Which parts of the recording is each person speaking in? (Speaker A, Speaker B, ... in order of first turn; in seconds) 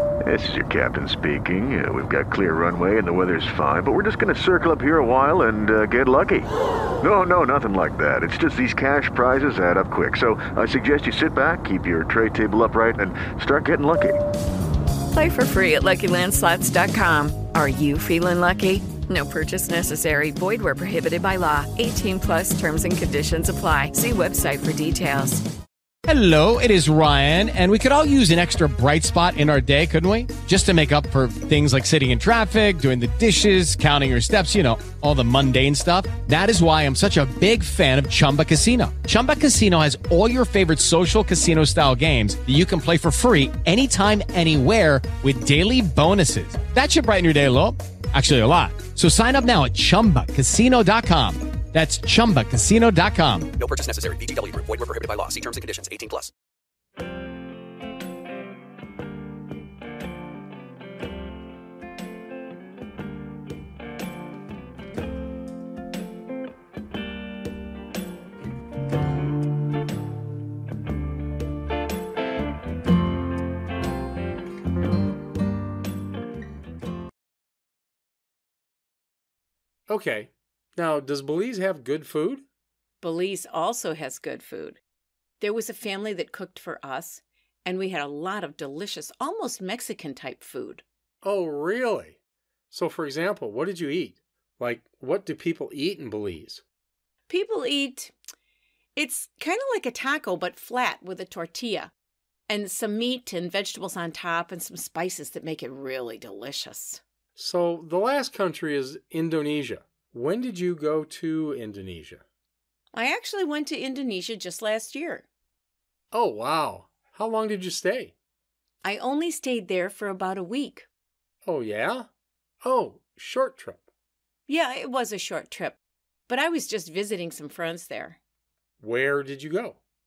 Speaker A: 0.2-6.5, 7.0-14.2
Speaker B: 15.1-25.4
Speaker C: 26.1-53.5
Speaker D: 53.5-56.3
Speaker E: 79.9-82.4, 91.2-92.2, 92.7-96.6, 107.4-112.2, 116.1-118.1, 121.4-122.1, 122.6-123.9, 128.8-129.8
Speaker F: 83.0-84.8, 85.4-90.8, 97.3-98.1, 99.0-101.9, 102.5-107.0, 112.9-115.2, 118.8-120.9, 124.5-128.2